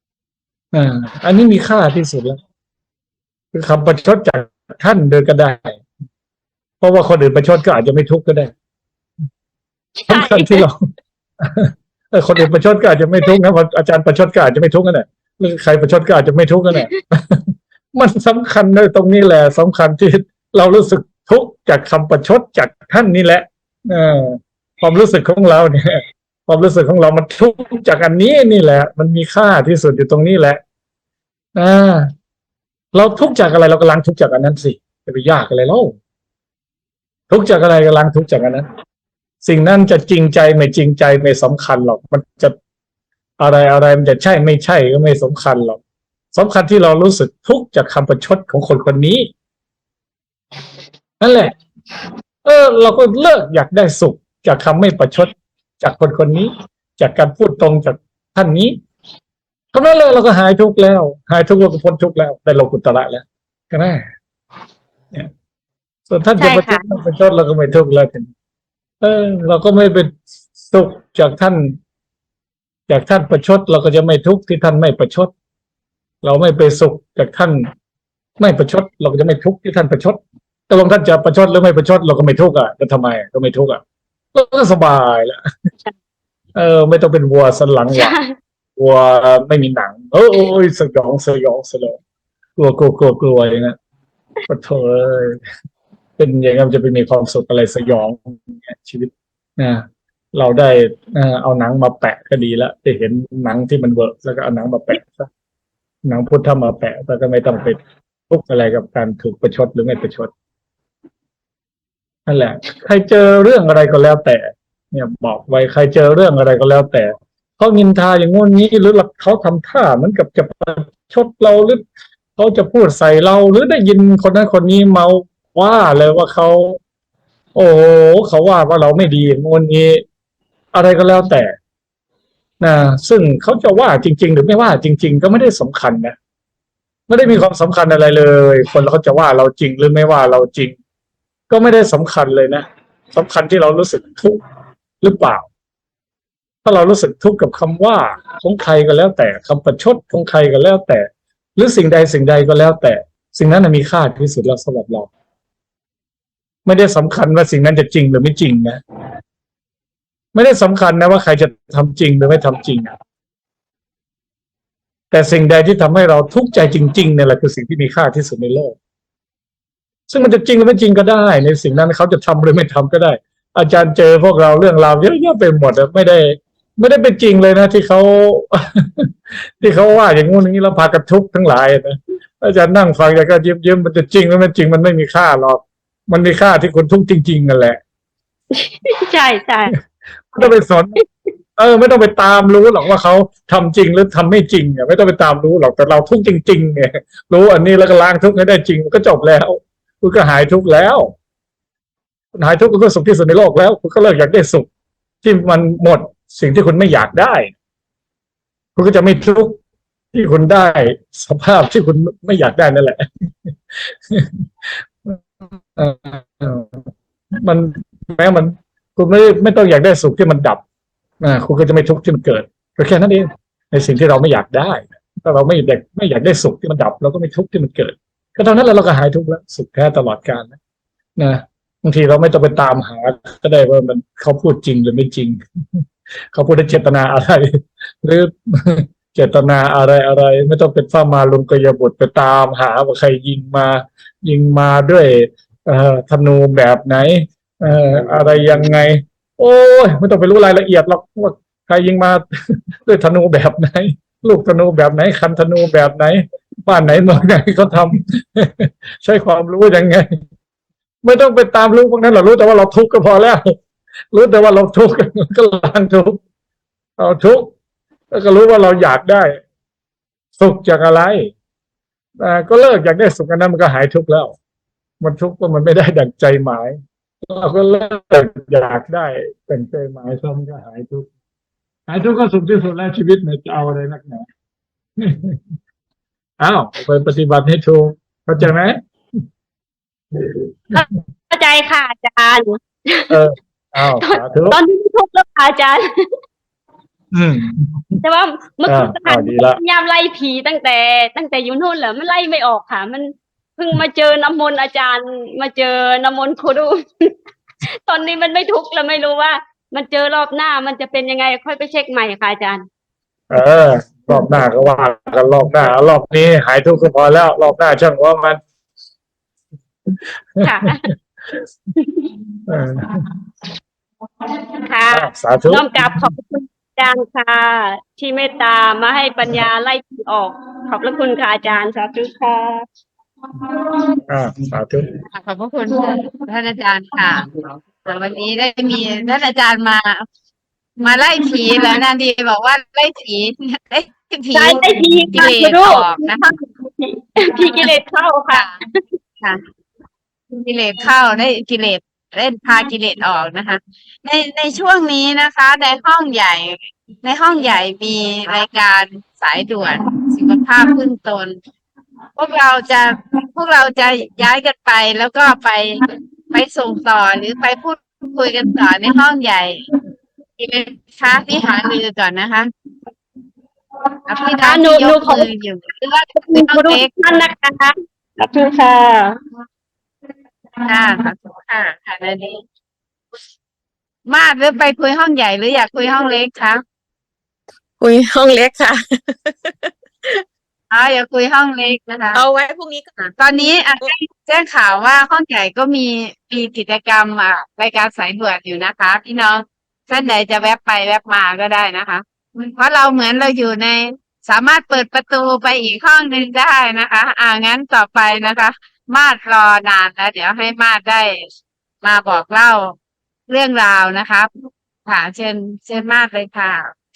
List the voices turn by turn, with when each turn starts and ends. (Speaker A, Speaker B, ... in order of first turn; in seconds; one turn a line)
Speaker A: 0.7-2.4
Speaker A: 3.5-5.8
Speaker A: 6.8-8.5
Speaker B: 10.0-10.7
Speaker A: 10.1-10.8
Speaker A: 11.4-30.6
Speaker B: 16.7-17.0
Speaker A: 31.6-32.1
Speaker A: 32.9-36.0
Speaker A: 37.3-38.7
Speaker A: 39.4-42.5
Speaker A: 43.4-45.8
Speaker A: 46.3-49.3
Speaker A: 51.2-51.5
Speaker A: 52.5-58.8
Speaker A: 59.7-64.1
Speaker A: 66.1-68.3
Speaker B: 66.4-66.8
Speaker A: 69.0-71.8
Speaker A: 72.9-75.3
Speaker A: 76.2-77.7
Speaker A: 78.4-83.8
Speaker A: 84.3-85.4
Speaker A: 86.5-88.2
Speaker B: 87.9-88.3
Speaker A: 88.8-92.0
Speaker A: 92.6-93.8
Speaker A: 94.5-95.4
Speaker A: 96.2-105.3
Speaker A: 106.0-107.8
Speaker A: 108.3-110.3
Speaker A: 112.3-121.8
Speaker A: 122.4-126.8
Speaker A: 127.5-130.0
Speaker A: 130.7-131.5
Speaker A: 132.6-136.2
Speaker A: 137.1-140.8
Speaker A: 141.5-144.4
Speaker A: 145.0-145.5
Speaker A: 146.7-155.1
Speaker A: 156.7-158.8
Speaker A: 160.3-162.9
Speaker A: 165.1-168.8
Speaker A: 170.1-187.8
Speaker B: 188.5-189.7
Speaker A: 190.3-191.0
Speaker B: 190.4-191.0
Speaker A: 191.6-201.1
Speaker A: 202.3-204.7
Speaker A: 205.2-207.5
Speaker A: 208.8-209.6
Speaker A: 210.1-216.8
Speaker A: 217.3-220.6
Speaker A: 221.2-230.6
Speaker A: 231.2-235.8
Speaker A: 236.3-260.1
Speaker A: 261.0-263.6
Speaker A: 264.1-266.2
Speaker A: 267.0-267.5
Speaker A: 268.1-269.4
Speaker A: 270.4-271.3
Speaker A: 272.2-274.4
Speaker A: 275.0-281.1
Speaker A: 281.9-284.3
Speaker A: 285.0-285.4
Speaker A: 286.4-288.8
Speaker A: 290.1-290.9
Speaker B: 290.8-293.2
Speaker A: 293.1-294.6
Speaker B: 294.0-296.1
Speaker A: 297.1-298.0
Speaker B: 298.0-312.7
Speaker A: 298.7-299.6
Speaker A: 313.3-318.4
Speaker A: 319.9-321.4
Speaker B: 320.4-320.9
Speaker B: 321.8-322.1
Speaker A: 322.5-323.1
Speaker B: 324.5-332.6
Speaker A: 324.9-326.1
Speaker A: 334.1-334.9
Speaker C: 335.1-340.1
Speaker C: 340.8-346.3
Speaker B: 344.3-348.8
Speaker C: 348.3-348.6
Speaker C: 350.3-361.4
Speaker C: 362.2-369.6
Speaker C: 370.4-372.5
Speaker C: 374.1-377.2
Speaker B: 374.4-375.3
Speaker B: 376.1-379.2
Speaker C: 380.6-382.4
Speaker C: 384.1-386.6
Speaker D: 387.8-390.2
Speaker C: 390.7-392.2
Speaker D: 392.1-392.9
Speaker C: 393.0-411.2
Speaker C: 411.8-412.8
Speaker C: 413.3-414.3
Speaker C: 414.9-416.7